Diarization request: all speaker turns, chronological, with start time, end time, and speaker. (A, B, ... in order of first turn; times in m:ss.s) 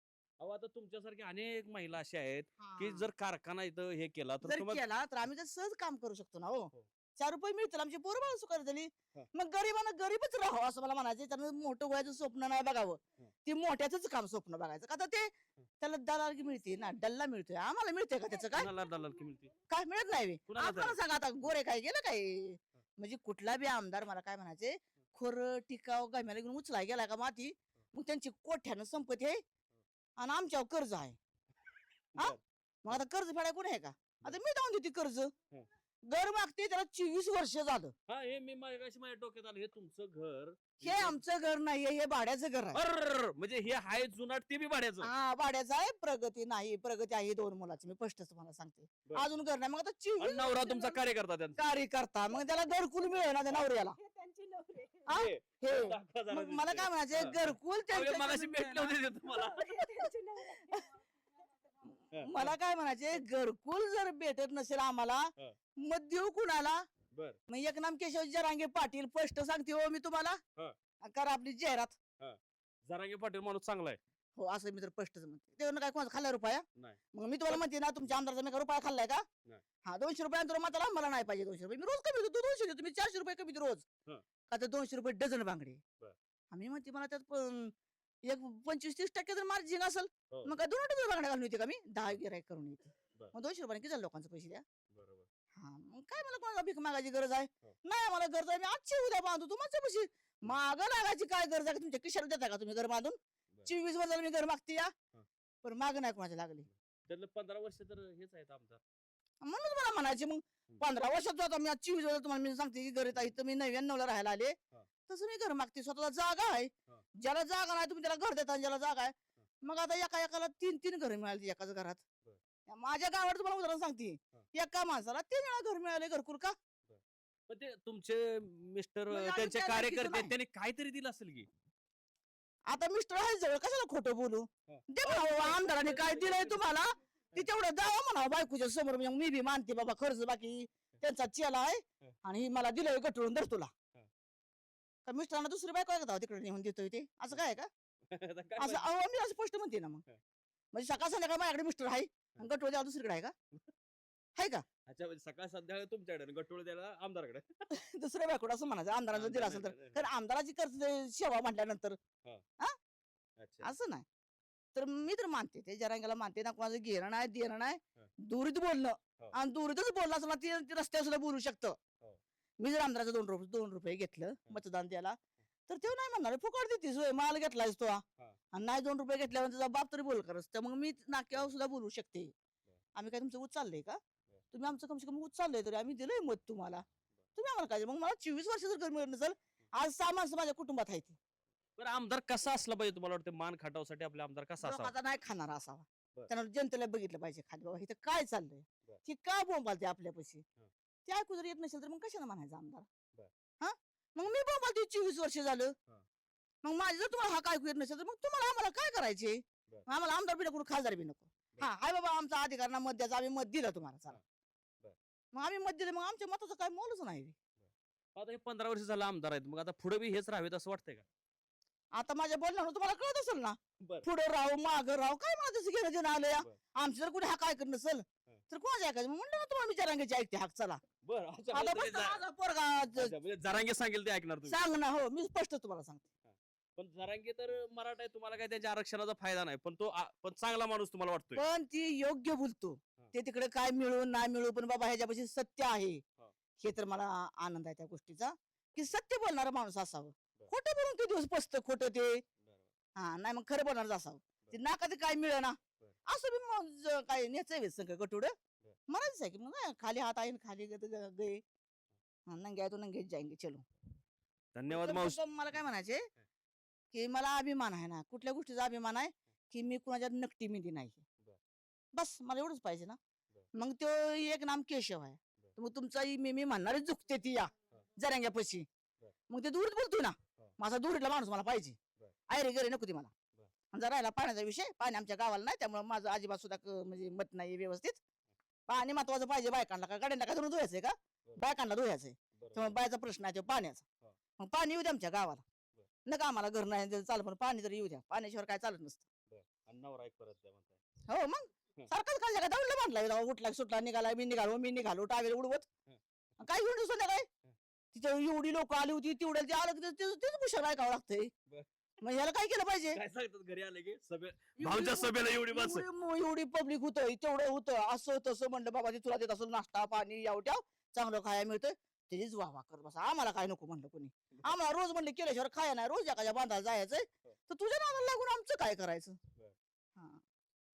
0:00.4-0:04.8 A
0:02.6-0:03.1 B
0:04.4-0:18.7 B
0:18.5-0:19.5 A
0:19.7-0:29.4 B
0:20.5-0:21.0 A
0:30.2-0:31.2 B
0:32.2-0:35.3 B
0:36.1-0:37.9 B
0:38.1-0:41.2 A
0:40.8-0:42.8 B
0:42.7-0:45.1 A
0:45.0-0:51.0 B
0:50.2-0:51.6 A
0:51.6-0:54.0 B
0:53.9-0:55.1 C
0:55.1-0:59.0 B
0:55.1-0:59.6 A
0:59.2-1:00.8 C
0:59.7-1:00.0 B
1:02.1-1:02.6 A
1:02.2-1:06.8 B
1:07.5-1:10.4 B
1:11.0-1:12.0 B
1:12.2-1:14.0 A
1:14.4-1:19.2 B
1:19.8-1:23.8 B
1:24.5-1:25.8 B
1:26.5-1:27.7 B
1:28.2-1:34.6 B
1:34.9-1:35.3 A
1:35.5-1:44.9 B
1:45.6-1:46.7 B
1:47.1-1:48.8 A
1:49.4-1:54.6 B
1:55.1-2:02.0 B
2:02.7-2:06.5 B
2:06.9-2:11.5 A
2:09.1-2:10.3 B
2:12.7-2:23.7 B
2:14.7-2:16.6 A
2:25.0-2:27.7 B
2:28.1-2:28.8 A
2:28.6-2:30.0 B
2:30.7-2:33.3 B
2:34.4-2:34.6 B
2:34.9-2:37.6 A
2:37.7-2:42.0 B
2:39.1-2:40.0 A
2:43.4-2:43.7 A
2:43.6-2:44.0 B
2:44.7-2:51.8 B
2:52.6-2:55.2 B
2:55.7-2:58.0 B
2:58.5-3:02.3 B
3:03.0-3:04.0 B
3:04.5-3:06.8 B
3:07.4-3:11.2 B
3:11.8-3:14.9 A
3:14.6-3:20.4 B
3:21.0-3:22.9 B
3:23.6-3:25.7 B
3:26.6-3:34.2 B
3:35.3-3:37.3 B
3:37.6-3:41.0 A
3:41.9-3:50.8 B
3:43.8-3:44.1 A
3:51.0-3:52.2 A
3:51.5-3:53.1 B
3:53.0-3:54.6 A
3:54.5-3:56.0 B
3:56.3-4:01.4 A
4:01.4-4:06.0 B
4:06.6-4:12.2 B
4:13.0-4:18.3 B
4:18.9-4:21.4 B
4:22.3-4:23.6 B
4:24.5-4:25.2 A
4:24.7-4:26.0 B
4:26.9-4:31.0 B
4:31.9-4:33.0 B
4:33.5-4:38.6 B
4:39.3-4:41.8 B
4:42.3-4:43.1 B
4:43.7-4:48.0 B
4:48.7-4:53.8 B
4:52.4-4:52.8 A
4:54.4-4:55.4 B
4:56.0-4:59.0 B
4:59.3-5:00.8 A
5:01.1-5:05.7 B
5:06.4-5:07.3 B
5:07.9-5:11.3 B
5:12.0-5:13.0 B
5:12.9-5:15.9 A
5:14.6-5:29.2 B
5:30.0-5:30.2 B